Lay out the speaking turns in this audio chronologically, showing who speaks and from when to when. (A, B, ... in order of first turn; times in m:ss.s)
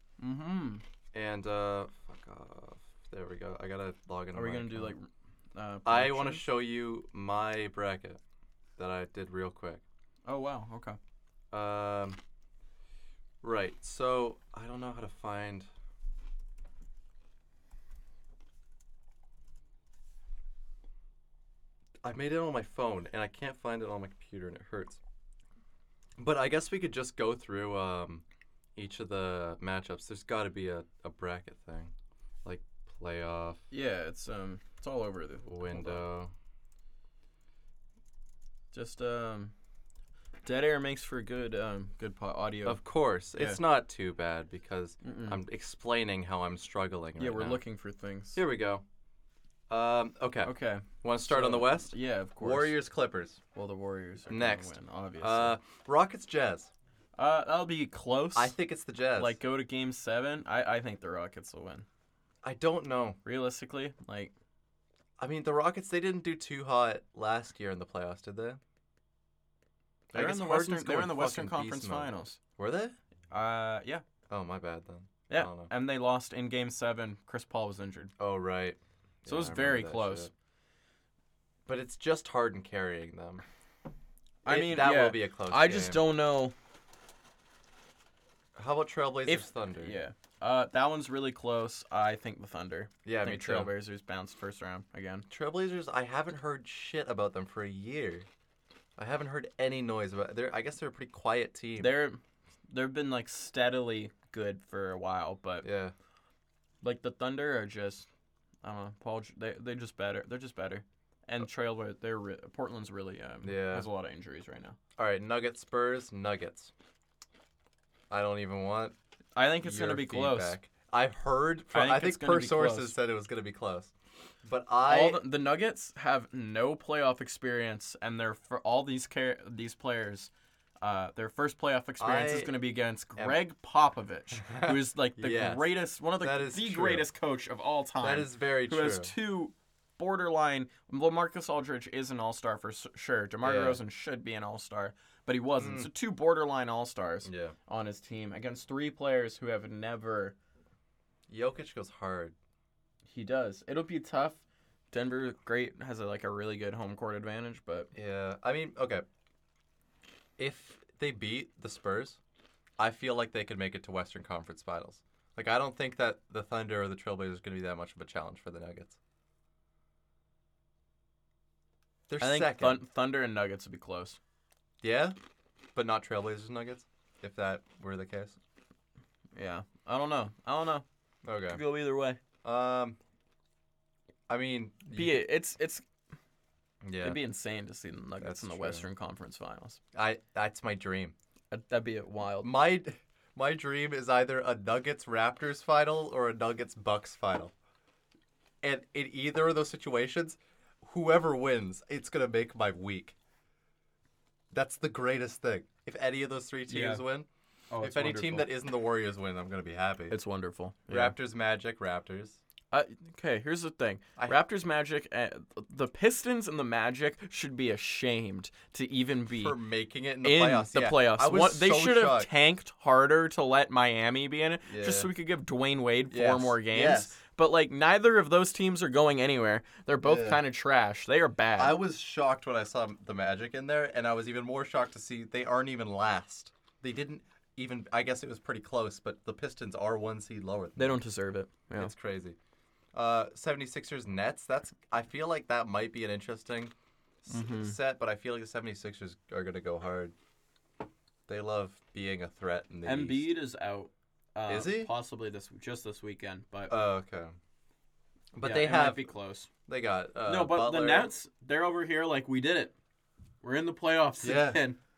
0:00.2-0:00.8 A
0:01.1-0:05.0 B
0:04.3-0:06.4 A
0:05.8-0:08.2 B
0:08.8-0:09.8 B
0:10.3-0:11.0 A
0:11.5-0:12.2 B
0:13.4-0:15.7 B
0:22.0-0:25.0 B
0:26.2-0:28.2 B
0:28.8-0:31.9 B
0:32.4-0:33.6 B
0:33.7-0:36.0 A
0:35.4-0:36.3 B
0:38.7-0:39.5 A
0:40.4-0:42.8 A
0:42.6-0:47.6 B
0:45.0-0:45.4 A
0:47.2-0:48.4 A
0:48.3-0:48.8 B
0:49.7-0:53.4 B
0:50.4-0:52.8 A
0:53.5-0:55.6 A
0:54.3-0:56.7 B
0:57.2-0:58.5 A
0:58.3-0:59.4 B
0:59.2-1:01.8 A
1:02.4-1:03.2 B
1:03.2-1:04.3 A
1:05.2-1:08.6 B
1:10.1-1:12.4 A
1:10.1-1:13.0 B
1:13.3-1:14.0 A
1:14.3-1:15.7 B
1:15.3-1:18.1 A
1:18.2-1:20.3 B
1:19.2-1:20.3 A
1:21.6-1:23.4 B
1:24.4-1:26.5 A
1:24.4-1:26.1 B
1:28.6-1:30.0 B
1:29.2-1:35.3 A
1:33.0-1:33.7 B
1:35.3-1:38.3 B
1:39.0-1:42.0 B
1:41.8-1:45.7 A
1:45.6-1:45.9 B
1:46.8-1:48.1 A
1:48.6-1:54.8 A
1:53.4-1:53.9 B
1:55.0-1:56.7 B
1:58.1-1:58.9 B
1:59.3-2:00.6 A
1:59.6-2:03.9 B
2:01.7-2:02.9 A
2:04.4-2:05.2 B
2:04.8-2:30.3 A
2:12.0-2:12.6 B
2:13.2-2:13.4 B
2:14.4-2:17.1 B
2:18.0-2:19.1 B
2:23.4-2:23.8 B
2:25.6-2:25.9 B
2:27.2-2:27.6 B
2:31.3-2:32.4 B
2:33.1-2:37.9 A
2:37.9-2:39.0 B
2:40.4-2:42.2 B
2:42.8-2:49.0 B
2:52.1-2:52.8 B
2:52.2-2:54.2 A
2:54.8-2:55.2 B
2:55.7-2:58.4 B
2:59.4-3:00.8 A
3:01.2-3:01.6 B
3:01.5-3:02.2 A
3:02.4-3:03.0 B
3:04.3-3:05.2 B
3:04.9-3:05.8 A
3:06.8-3:07.2 B
3:07.0-3:09.8 A
3:08.2-3:08.8 B
3:09.9-3:11.1 B
3:11.5-3:12.5 A
3:12.4-3:17.5 B
3:18.6-3:23.2 B
3:24.5-3:27.3 B
3:26.7-3:27.0 A
3:27.7-3:28.5 A
3:27.8-3:30.2 B
3:30.1-3:31.2 A
3:30.9-3:32.4 B
3:32.7-3:39.6 A
3:34.2-3:34.4 B
3:39.3-3:42.3 B
3:40.2-3:51.8 A
3:44.6-3:45.1 B
3:46.1-3:47.2 B
3:50.0-3:50.4 B
3:51.6-4:01.0 B
4:00.8-4:01.9 A
4:01.8-4:02.4 B
4:02.9-4:06.7 B
4:07.2-4:10.1 B
4:07.3-4:07.8 A
4:11.3-4:13.3 B
4:12.8-4:16.8 A
4:14.5-4:14.9 B
4:16.7-4:17.3 B
4:18.3-4:19.1 B
4:18.4-4:19.5 A
4:19.7-4:21.1 B
4:20.2-4:22.7 A
4:23.4-4:24.8 A
4:24.2-4:24.6 B